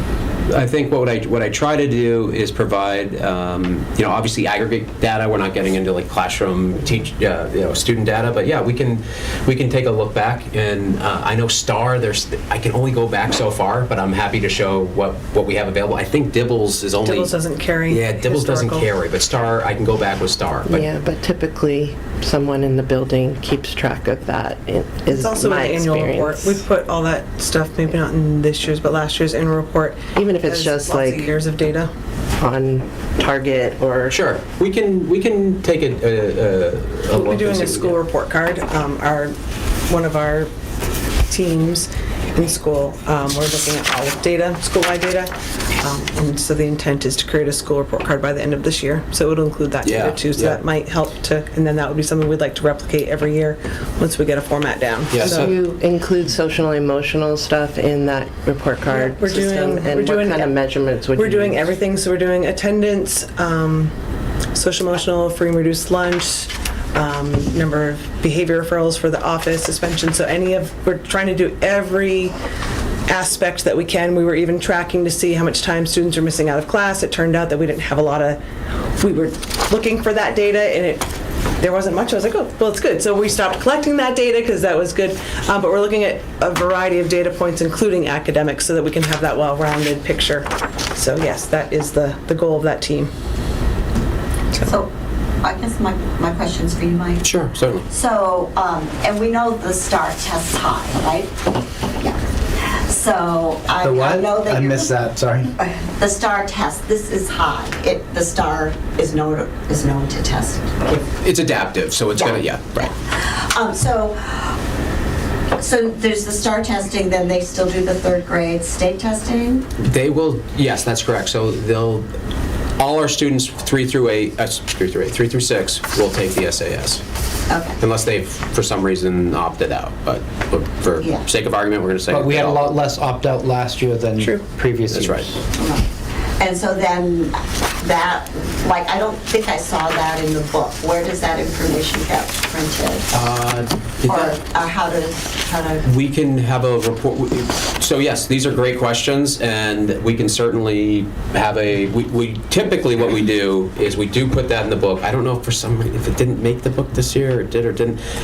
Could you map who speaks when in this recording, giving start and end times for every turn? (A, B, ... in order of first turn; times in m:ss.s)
0:00.5-0:20.8 A
0:17.0-0:18.9 B
0:20.7-0:26.6 C
0:25.1-0:31.9 B
0:30.1-0:31.3 C
0:32.4-0:34.2 C
0:34.1-0:38.0 A
0:37.1-0:39.4 B
0:39.9-0:40.5 B
0:41.3-0:55.5 B
0:49.8-0:50.6 A
0:55.1-0:55.5 A
0:55.2-1:01.6 C
0:58.9-1:00.6 B
1:01.1-1:03.9 B
1:04.5-1:12.3 B
1:13.1-1:18.4 B
1:19.0-1:21.0 B
1:21.6-1:33.1 B
1:34.6-1:34.9 D
1:35.4-1:44.9 D
1:37.2-1:37.8 A
1:43.8-1:45.6 E
1:45.6-1:51.0 D
1:51.2-1:52.9 A
1:52.1-1:54.6 D
1:55.6-1:59.7 D
1:59.8-2:02.1 A
2:02.8-2:07.0 A
2:07.5-2:07.8 D
2:07.8-2:12.7 A
2:12.1-2:15.4 E
2:14.9-2:15.3 A
2:15.5-2:15.9 D
2:16.4-2:23.2 D
2:23.1-2:24.3 A
2:24.1-2:25.8 D
2:25.8-2:38.0 A